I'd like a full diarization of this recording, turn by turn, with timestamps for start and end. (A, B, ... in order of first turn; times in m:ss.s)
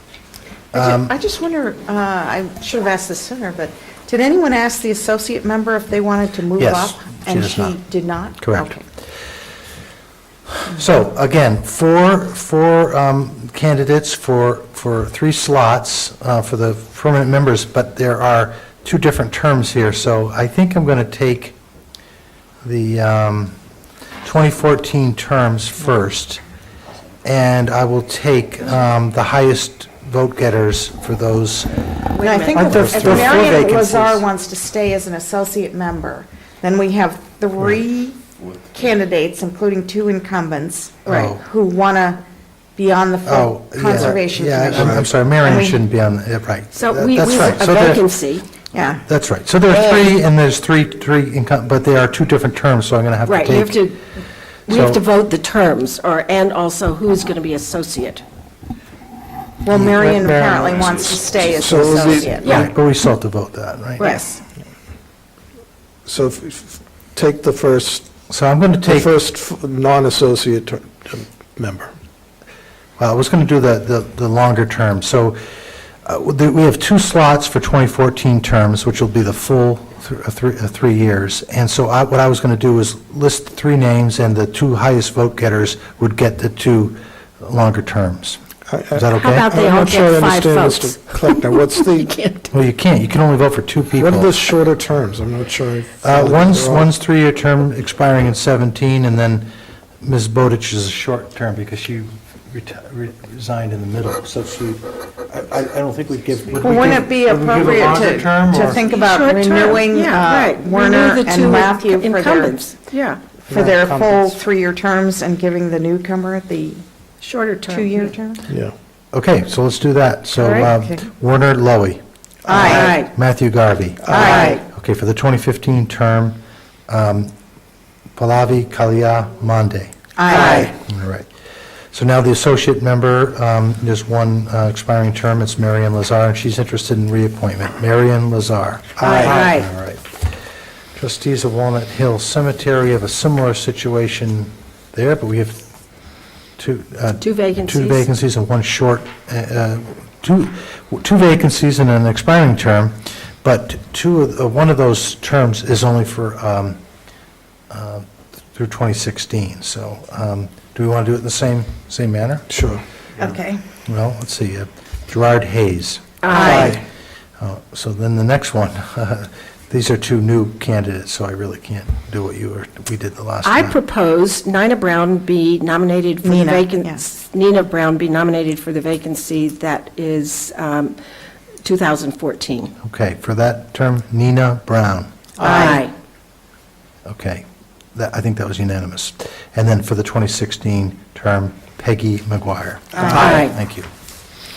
0:00.7-0:01.1 A
0:00.7-0:08.8 B
0:06.6-0:07.8 A
0:08.4-0:08.7 A
0:10.6-0:21.6 A
0:22.6-0:23.6 A
0:24.2-0:26.4 A
0:27.2-0:31.8 A
0:32.1-0:33.6 C
0:32.1-0:38.2 B
0:32.5-0:34.2 A
0:32.5-0:33.6 D
0:38.7-0:42.2 B
0:41.0-0:41.4 A
0:42.8-0:45.8 B
0:43.2-0:48.0 A
0:44.7-0:45.1 D
0:46.7-0:48.4 C
0:48.7-0:49.0 B
0:49.1-0:53.9 A
0:53.2-0:54.0 C
0:54.7-0:58.2 C
0:54.7-0:55.0 A
0:59.6-1:02.6 B
0:59.9-1:00.9 D
1:01.6-1:02.6 D
1:02.4-1:02.7 C
1:02.4-1:04.1 A
1:04.0-1:04.4 C
1:04.0-1:04.4 B
1:06.0-1:08.1 D
1:08.3-1:09.1 A
1:08.7-1:11.9 D
1:13.0-1:15.4 A
1:16.0-1:29.5 A
1:28.7-1:32.1 D
1:29.2-1:32.5 C
1:32.5-1:34.4 A
1:33.9-1:36.9 D
1:36.0-1:39.5 A
1:40.0-1:48.8 A
1:46.6-1:52.6 B
1:48.8-1:53.2 C
1:53.5-1:56.8 B
1:53.5-1:54.3 D
1:57.2-1:58.1 C
1:57.7-1:58.4 B
1:58.5-1:58.7 D
1:59.1-2:07.3 A
2:00.4-2:00.7 C
2:00.6-2:01.0 B
2:02.5-2:02.8 D
2:02.5-2:03.0 B
2:02.6-2:03.1 C
2:04.0-2:04.6 D
2:04.1-2:04.6 B
2:04.2-2:04.6 C
2:08.2-2:11.2 A
2:10.2-2:10.7 B
2:10.3-2:10.7 C
2:11.9-2:20.3 A
2:19.0-2:19.6 D
2:19.0-2:19.7 C
2:21.0-2:25.7 A
2:26.6-2:36.8 A
2:27.2-2:28.1 C
2:37.7-2:42.5 A
2:42.5-2:42.8 D
2:43.2-2:43.6 B
2:43.9-2:46.8 A
2:46.2-2:46.8 C
2:46.3-2:46.8 B
2:46.3-2:46.7 D
2:47.4-2:53.8 A
2:53.4-3:01.0 C
2:56.2-2:57.0 B
3:01.6-3:02.7 C
3:02.8-3:05.2 A
3:05.4-3:05.8 B
3:05.4-3:05.9 C
3:07.0-3:13.9 A
3:13.0-3:13.5 D
3:13.0-3:13.6 C